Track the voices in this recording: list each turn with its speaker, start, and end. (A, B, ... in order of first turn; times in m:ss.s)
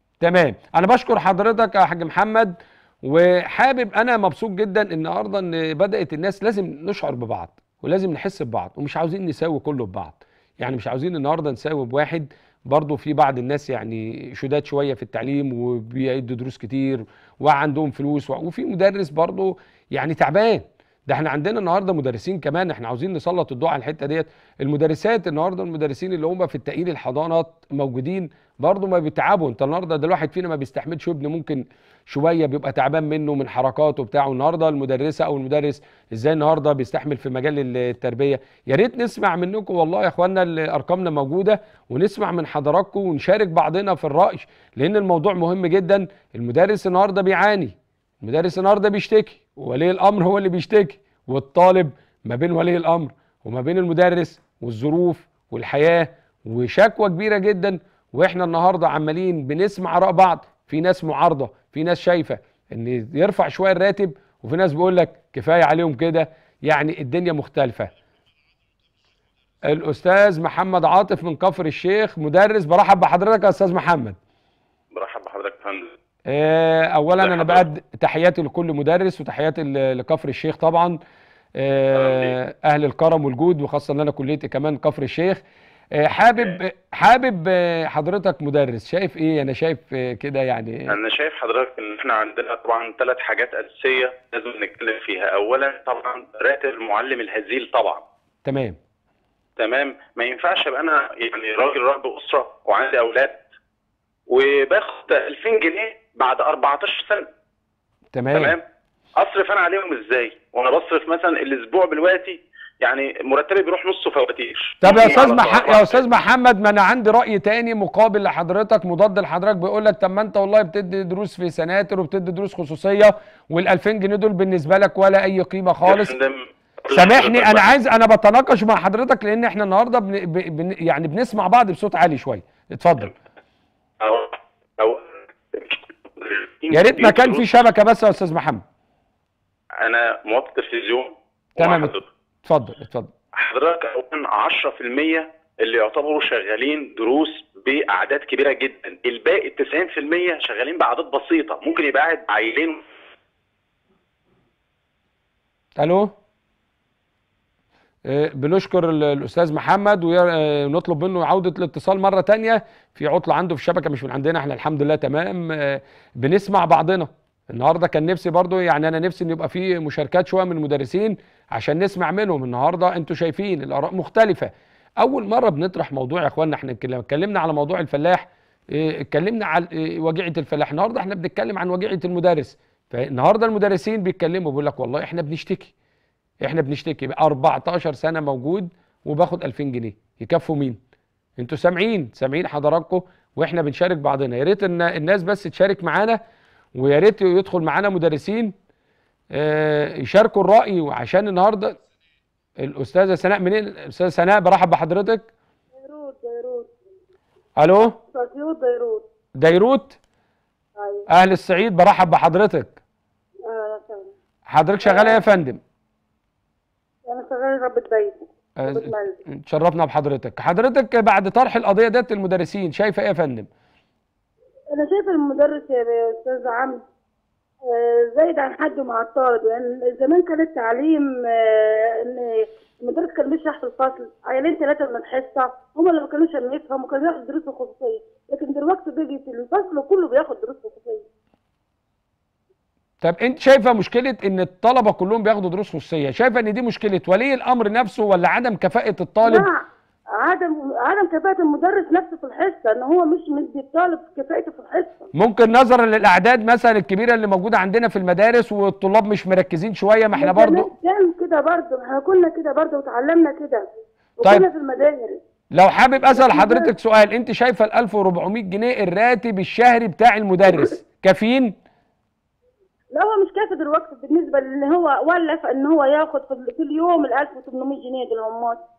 0:00.2-1:07.9 A
1:09.6-1:14.2 A
1:14.9-1:15.9 B
1:16.3-1:21.0 A
1:17.2-1:17.6 B
1:21.6-1:25.4 A
1:21.9-1:22.3 B
1:25.9-1:30.9 A
1:30.9-1:38.0 B
1:38.4-1:38.8 A
1:39.6-1:43.4 B
1:44.3-1:47.3 B
1:48.1-1:48.5 A
1:48.3-1:48.6 B
1:49.2-1:56.1 B
1:54.8-2:06.1 A
2:05.8-2:07.7 B
2:06.9-2:13.1 A
2:14.0-2:17.4 B
2:16.7-2:18.6 A
2:19.8-2:22.1 B
2:21.6-2:23.1 A
2:23.3-2:32.8 B
2:35.8-2:36.1 A
2:38.0-3:05.7 A
3:06.4-3:10.8 A
3:11.4-3:16.2 A
3:16.8-3:18.5 A
3:19.3-3:21.8 A
3:22.6-3:25.3 A
3:25.8-3:26.7 C
3:27.6-3:28.0 A
3:28.1-3:29.1 C
3:29.4-3:30.0 A
3:30.8-3:31.0 C
3:31.1-3:32.8 A
3:33.5-3:34.1 C
3:34.5-3:35.6 A
3:34.8-3:35.2 C
3:37.1-3:39.2 C
3:38.6-3:43.5 A
3:44.7-3:46.8 C
3:47.6-4:01.1 C
4:03.0-4:09.5 A
4:09.2-4:15.1 C
4:15.1-4:20.7 A
4:20.1-4:23.7 C
4:24.2-4:25.2 C
4:25.5-4:31.5 A
4:26.1-4:26.7 C
4:32.9-4:38.6 C